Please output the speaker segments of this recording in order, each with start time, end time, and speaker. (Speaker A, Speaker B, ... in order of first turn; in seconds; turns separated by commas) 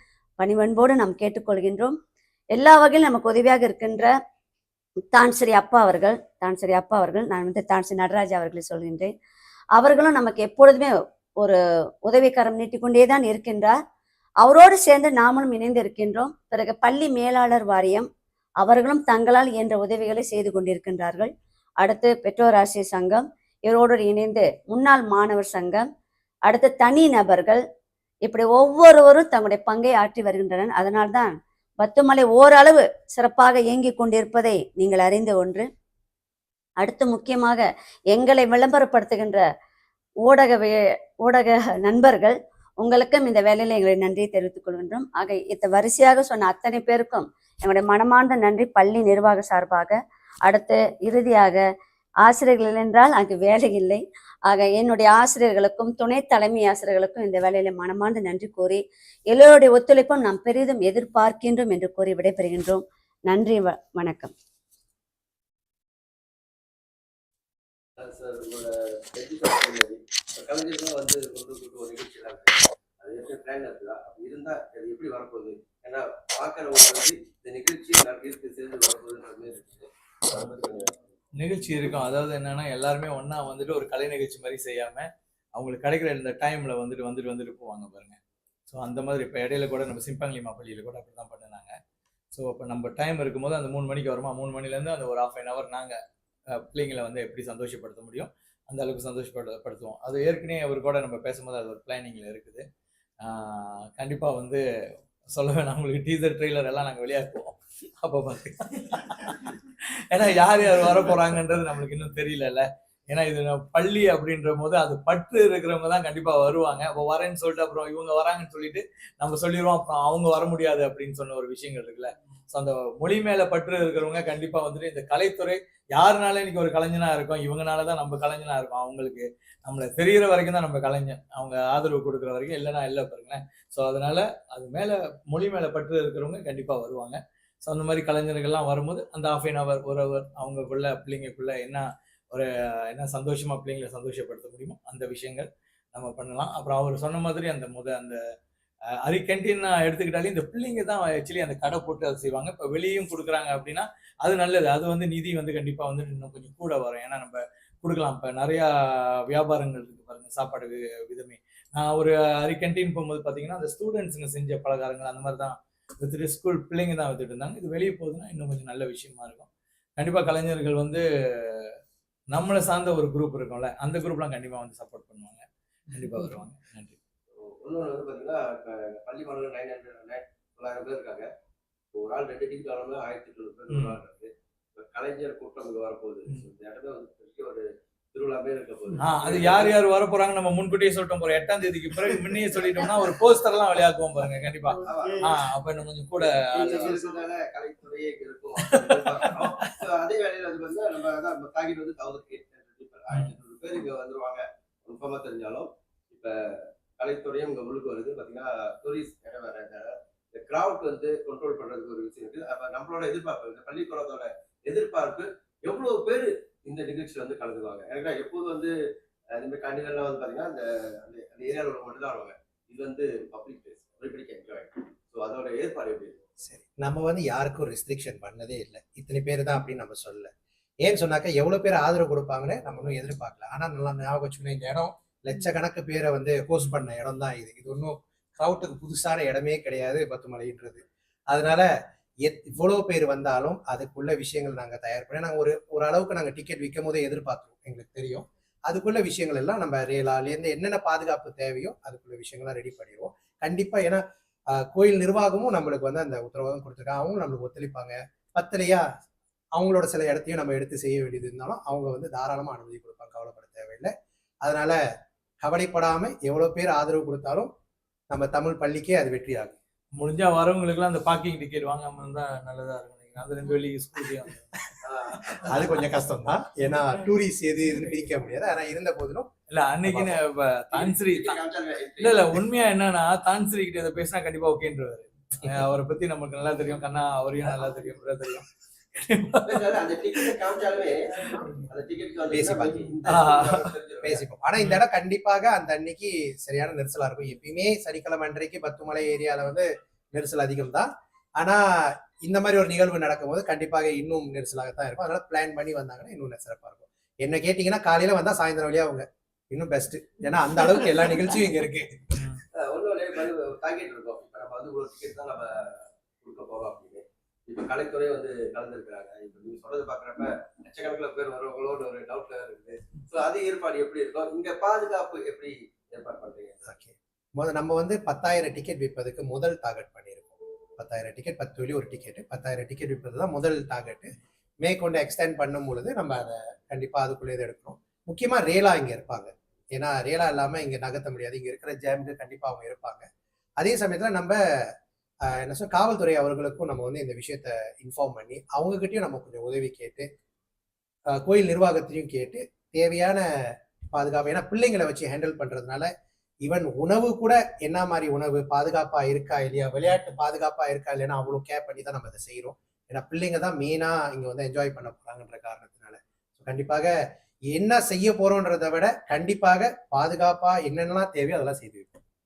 Speaker A: 0.4-2.0, Speaker A: 2.5-4.1, Speaker A: 5.1-9.1, Speaker A: 9.8-13.8, Speaker A: 14.4-18.1, Speaker A: 18.6-21.3, Speaker A: 21.8-25.9, Speaker A: 26.5-27.6, Speaker A: 28.2-35.7, Speaker A: 36.8-39.4, Speaker A: 40.2-51.6, Speaker A: 52.2-64.3, Speaker B: 68.0-81.1, Speaker C: 81.4-88.2, Speaker C: 88.7-91.8, Speaker C: 92.3-96.0, Speaker C: 96.5-102.6, Speaker C: 103.2-104.7, Speaker C: 105.3-148.2, Speaker C: 149.0-171.7, Speaker C: 172.3-177.0, Speaker B: 177.4-181.3, Speaker B: 181.9-189.8, Speaker C: 183.7-184.0, Speaker C: 189.0-197.1, Speaker A: 194.7-195.2, Speaker B: 194.8-195.3, Speaker B: 196.2-218.7, Speaker C: 198.6-199.6, Speaker B: 219.3-226.2, Speaker D: 226.4-230.3, Speaker D: 230.8-241.7, Speaker D: 242.2-258.9, Speaker D: 259.5-264.8, Speaker D: 265.4-267.5, Speaker D: 268.1-269.6, Speaker C: 270.0-275.6, Speaker B: 274.8-275.6, Speaker D: 275.4-279.3, Speaker C: 279.5-281.4, Speaker D: 279.8-280.2, Speaker B: 280.7-282.4, Speaker C: 282.0-290.4, Speaker B: 289.4-294.2, Speaker D: 292.3-292.9, Speaker C: 293.1-293.7, Speaker D: 294.0-312.2, Speaker C: 312.2-312.4, Speaker B: 312.5-326.6, Speaker D: 326.7-343.1, Speaker D: 343.6-350.1, Speaker D: 351.1-355.9, Speaker D: 356.4-366.9, Speaker D: 367.5-372.0